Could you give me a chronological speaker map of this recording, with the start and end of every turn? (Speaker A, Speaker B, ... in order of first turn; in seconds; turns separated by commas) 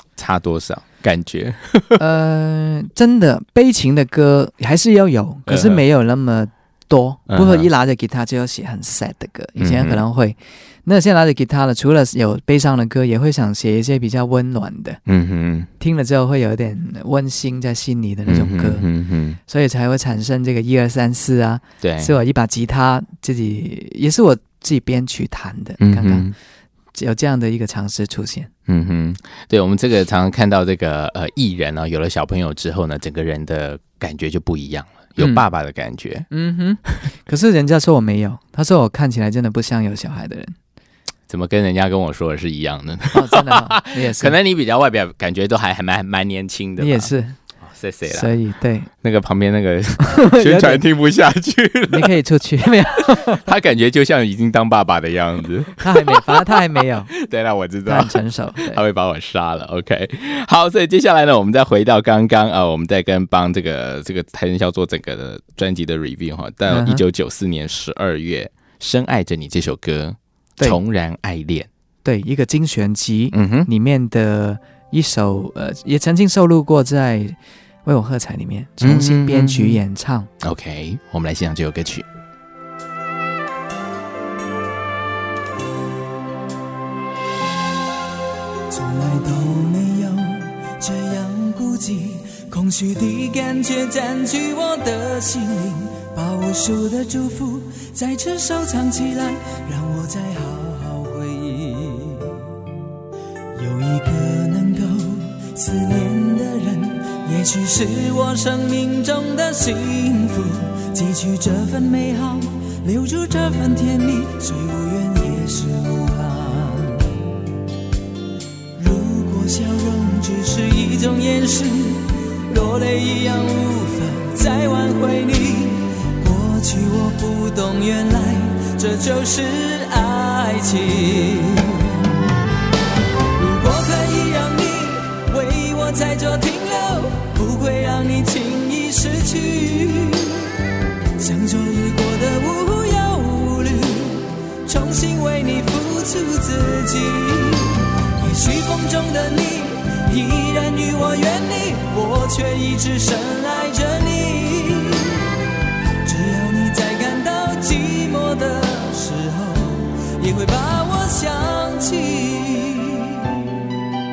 Speaker A: 0.1-2.0, Speaker B: 2.0-15.0, Speaker A: 5.5-5.8, Speaker A: 7.3-7.7, Speaker A: 9.6-10.0, Speaker A: 15.1-15.7, Speaker B: 15.8-18.8, Speaker A: 18.3-19.4, Speaker B: 19.5-26.3, Speaker A: 21.8-22.1, Speaker A: 25.8-26.3, Speaker B: 26.9-28.5, Speaker A: 28.7-36.3, Speaker B: 35.2-35.4, Speaker B: 36.3-40.5, Speaker A: 41.3-48.3, Speaker B: 43.1-44.3, Speaker B: 46.8-47.4, Speaker B: 48.1-48.9, Speaker A: 49.0-52.1, Speaker B: 50.0-50.8, Speaker B: 51.9-53.4, Speaker A: 53.1-56.6, Speaker B: 55.8-57.1, Speaker A: 57.1-71.7, Speaker B: 57.9-58.8, Speaker B: 66.7-67.0, Speaker B: 72.0-80.3, Speaker A: 73.3-73.7, Speaker A: 78.8-79.8, Speaker A: 80.4-82.0, Speaker C: 88.7-102.6, Speaker C: 103.5-117.1, Speaker C: 118.8-132.3, Speaker C: 133.3-140.5, Speaker C: 141.2-155.3, Speaker C: 156.0-163.5